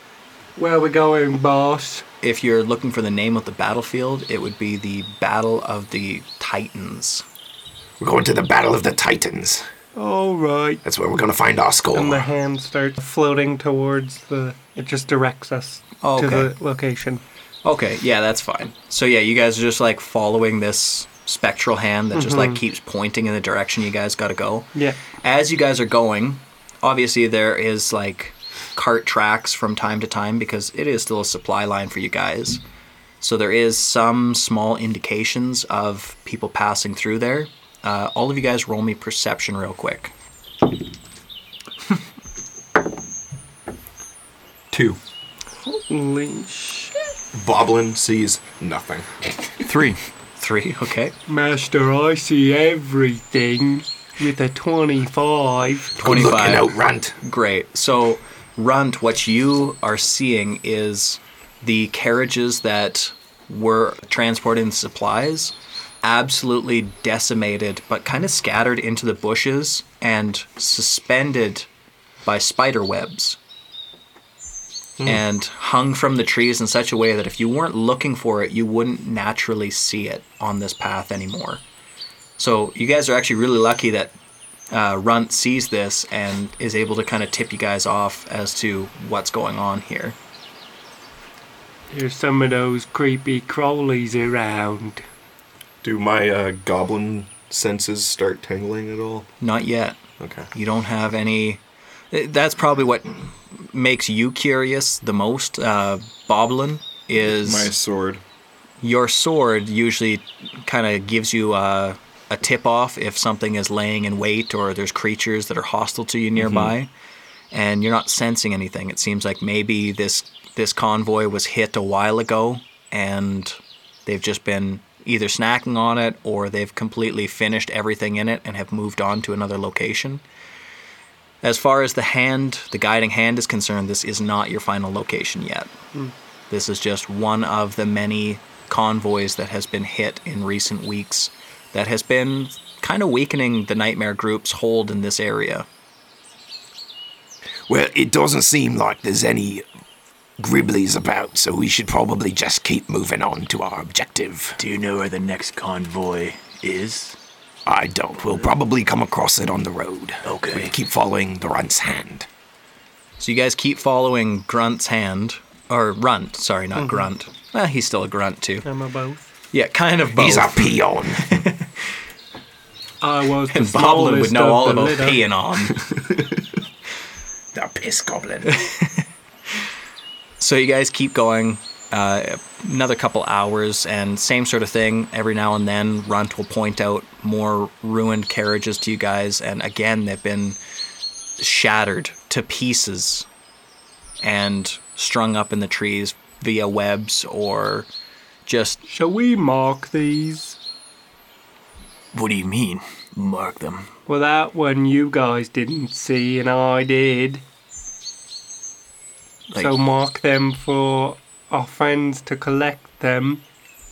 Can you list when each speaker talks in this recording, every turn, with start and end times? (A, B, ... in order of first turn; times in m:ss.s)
0:00.6-0:02.0 A
0:02.2-0:07.2 B
0:08.0-0:09.6 C
0:10.0-0:10.8 A
0:10.8-0:12.3 C
0:11.9-0:17.2 A
0:16.0-0:16.5 B
0:17.6-0:32.6 B
0:22.1-0:22.6 A
0:33.2-0:40.1 B
0:44.7-0:45.0 D
0:45.6-0:47.1 A
0:47.3-0:49.7 D
0:49.7-0:50.0 E
0:50.4-0:51.1 B
0:51.3-0:56.0 A
0:56.0-1:11.7 B
0:56.0-0:57.2 C
1:12.2-1:13.4 B
1:15.0-1:21.6 B
1:22.4-1:24.1 B
1:24.7-1:30.2 B
1:31.9-1:35.0 A
1:35.8-1:39.3 D
1:39.4-1:40.0 B
1:40.2-1:40.5 D
1:40.5-1:41.6 B
1:42.1-1:47.7 B
1:47.2-1:48.2 D
1:48.8-1:56.9 B
1:56.4-1:56.7 D
1:57.5-2:10.2 B
2:11.4-2:15.7 B
2:16.5-2:25.7 B
2:27.7-2:29.6 C
2:30.4-2:34.6 C
2:34.6-2:37.2 E
2:37.7-2:42.3 C
2:40.2-2:40.7 E
2:43.2-2:48.6 B
2:46.8-2:47.0 A
2:48.6-2:49.3 A
2:49.5-2:51.6 B
2:50.2-2:51.3 C
2:53.0-2:55.2 A
2:53.5-2:55.8 B
2:57.5-2:58.6 C
2:58.5-2:59.0 B
3:00.4-3:10.6 B
3:11.4-3:13.3 B
3:14.2-3:17.9 B
3:18.5-3:18.8 B
3:18.9-3:20.6 A
3:22.1-3:23.9 E
3:24.1-3:27.4 A
3:29.5-3:33.4 A